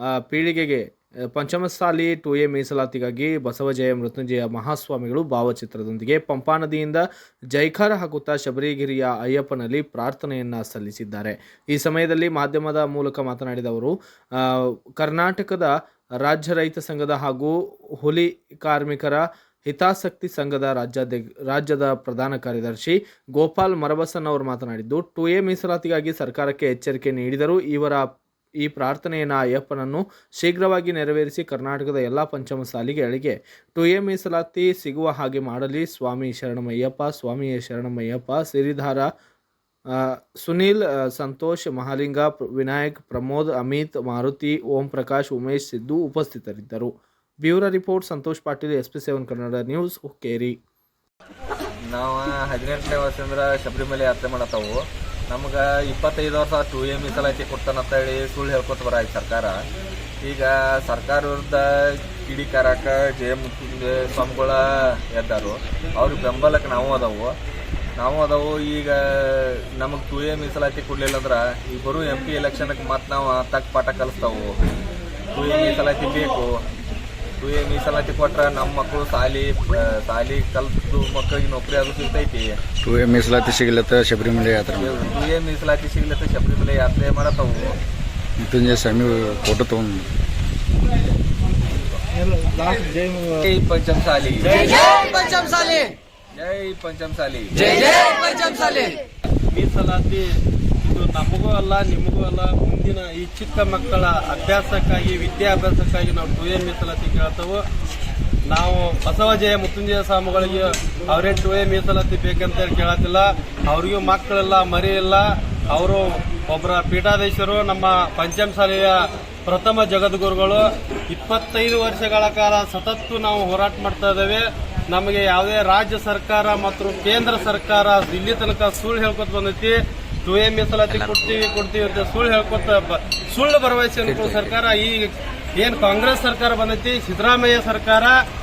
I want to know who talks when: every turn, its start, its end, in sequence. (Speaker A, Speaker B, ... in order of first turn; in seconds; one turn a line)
Speaker A: 0.2-28.1
Speaker A: 28.6-39.1
Speaker A: 39.9-46.9
Speaker A: 47.4-50.6
Speaker B: 51.8-59.6
Speaker B: 60.2-67.3
Speaker B: 68.0-74.5
Speaker B: 75.3-76.5
Speaker B: 77.4-82.6
Speaker C: 82.8-85.0
Speaker B: 84.7-87.8
Speaker C: 88.4-90.0
Speaker A: 92.1-93.5
Speaker B: 93.5-98.4
Speaker D: 99.5-100.3
Speaker D: 100.8-107.6
Speaker D: 108.5-138.2